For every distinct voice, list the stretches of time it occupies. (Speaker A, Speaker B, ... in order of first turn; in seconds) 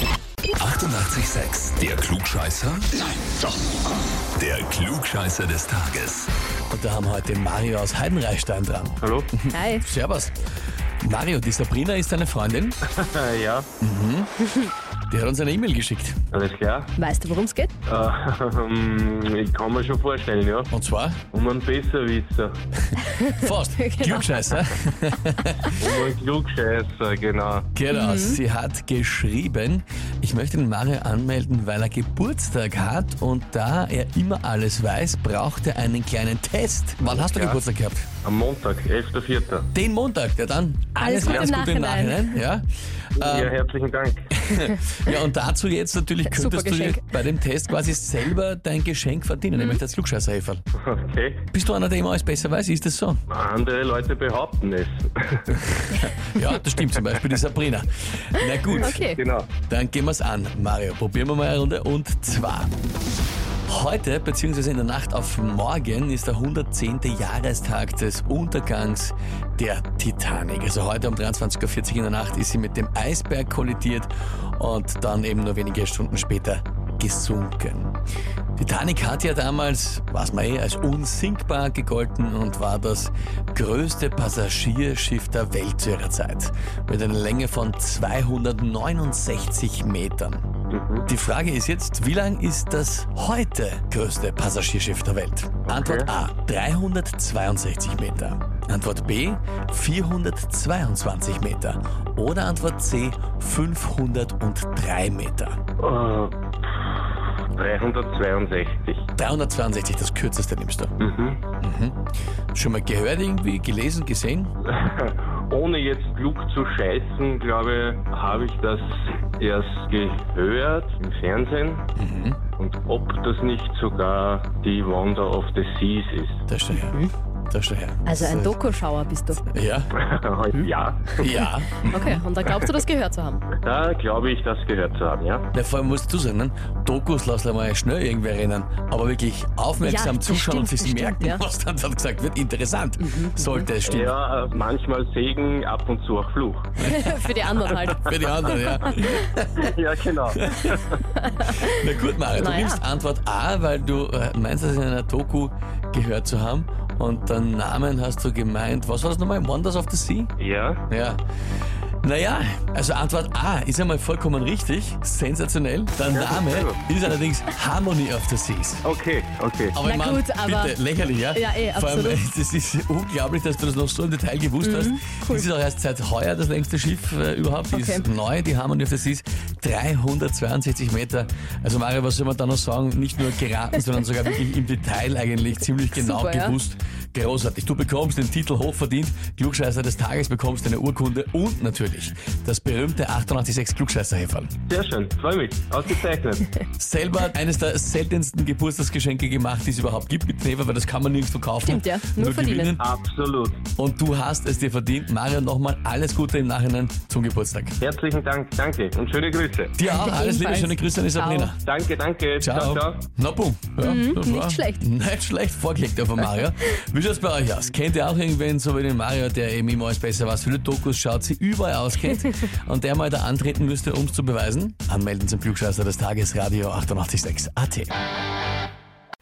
Speaker A: 0.6-3.0, 4.4-6.3
Speaker B: 6.7-10.3, 11.0-12.8, 13.8-14.3, 15.1-16.2, 20.7-21.2, 23.3-25.8, 27.7-38.0, 39.7-42.7, 43.2-43.5, 44.3-50.6, 51.5-53.2, 55.7-59.0, 59.7-62.7, 63.7-77.9, 78.6-90.4, 91.1-105.6, 109.2-110.9, 111.6-112.0, 112.5-114.5, 122.0-122.4, 126.5-128.6, 129.4-129.9, 131.2-132.2, 135.5-144.2, 146.8-149.6, 150.3-150.8, 151.5-160.3, 160.9-161.2, 162.0-168.8, 169.7-194.5, 196.8-202.8, 203.8-207.8, 209.8-211.6, 212.4-227.9
Speaker C: 9.0-9.3, 12.9-13.7, 16.3-16.9, 17.9-20.7, 21.3-22.6, 25.8-27.7, 37.0-37.6, 38.2-39.7, 43.2-44.4, 50.8-51.5, 53.3-56.0, 58.8-59.5, 90.7-91.1, 95.7-96.1, 105.8-106.9, 107.6-109.0, 111.0-111.4, 114.7-121.8, 122.6-126.4, 129.9-131.3, 133.6-135.4, 143.8-146.9, 149.6-151.0, 160.4-160.8, 166.1-166.8, 168.8-169.8, 194.7-196.5, 202.7-203.6, 207.8-209.8, 211.6-213.1
Speaker D: 9.5-9.9, 17.0-17.7, 23.2-24.6, 27.9-28.4, 41.0-42.5, 46.2-47.1, 58.4-59.2, 126.8-127.1, 128.0-129.4, 131.4-133.4, 139.8-141.4, 143.0-143.7, 146.8-149.2, 151.2-152.8, 169.8-170.8, 171.3-172.2, 174.6-175.5, 177.7-178.0, 185.9-186.6, 201.7-202.8, 209.8-211.5, 213.8-214.8